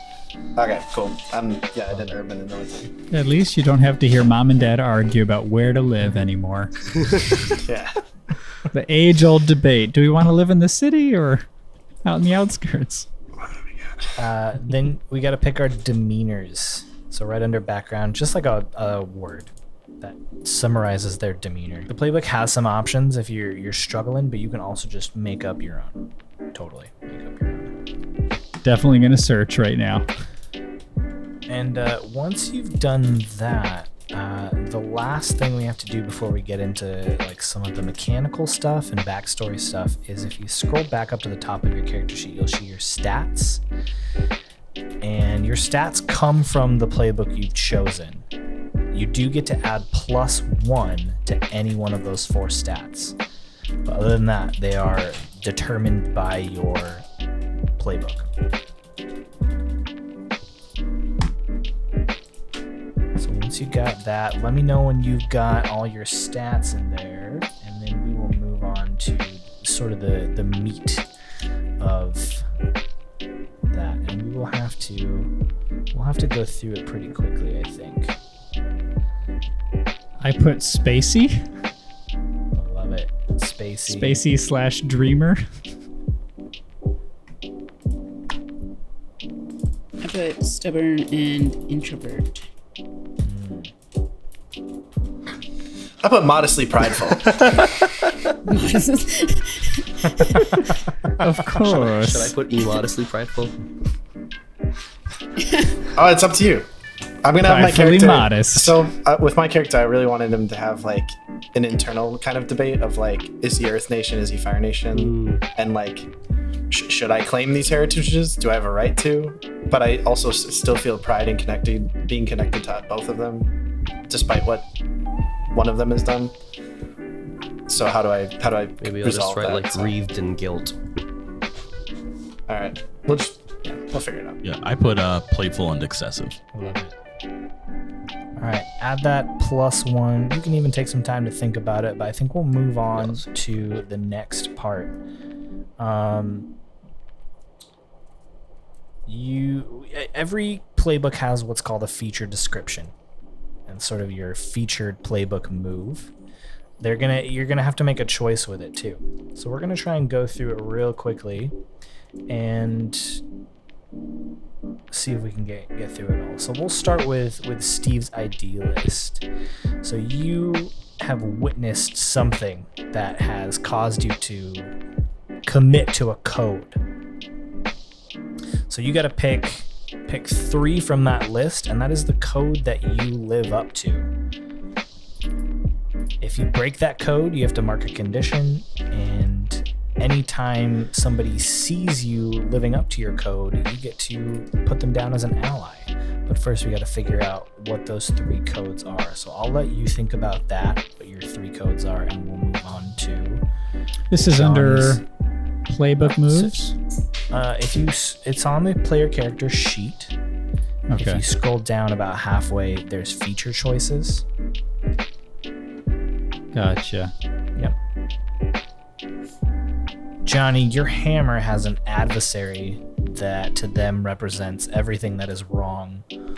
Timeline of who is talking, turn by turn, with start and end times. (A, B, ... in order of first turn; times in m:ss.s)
0:00.6-0:02.9 A
0:01.9-0:02.2 B
0:03.1-0:06.9 C
0:07.6-0:08.0 A
0:08.7-0:11.5 C
0:12.0-0:13.1 C
0:13.7-0:14.1 A
0:14.2-0:27.7 B
0:28.6-0:30.0 C
0:31.5-0:43.6 B
0:45.0-0:48.3 B
0:48.9-0:53.2 B
0:53.8-0:57.1 B
0:57.8-0:58.3 B
1:03.2-1:11.1 B
1:11.8-1:12.4 B
1:13.6-1:15.3 B
1:15.9-1:18.2 B
1:20.2-1:21.5 C
1:22.5-1:24.2 B
1:23.9-1:25.4 C
1:30.0-1:32.4 D
1:33.2-1:33.7 B
1:36.0-1:37.4 A
1:37.1-1:38.3 E
1:38.5-1:40.6 D
1:41.2-1:42.3 C
1:41.5-1:43.6 E
1:45.9-1:46.7 A
1:47.2-1:56.1 A
1:47.4-1:48.8 C
1:54.9-1:55.4 E
1:56.7-2:03.5 A
2:04.1-2:04.7 A
2:05.5-2:06.3 A
2:07.7-2:09.9 A
2:08.8-2:10.8 E
2:12.5-2:14.4 A
2:14.4-2:16.4 F
2:16.5-2:16.9 B
2:18.4-2:25.0 B
2:25.8-2:26.5 B
2:29.0-2:32.9 B
2:33.7-2:36.1 B
2:36.8-2:41.5 B
2:42.3-2:43.2 B
2:44.9-2:49.2 B
2:49.8-2:54.7 B
2:55.4-2:56.8 B
2:58.7-3:04.1 B
3:06.2-3:23.4 B
3:24.1-3:25.0 C
3:24.3-3:25.0 B
3:25.7-3:26.7 C
3:26.0-3:26.6 B
3:27.3-3:30.1 B
3:30.9-3:31.2 C
3:31.0-3:34.2 B
3:36.5-3:37.1 C
3:40.2-3:46.0 B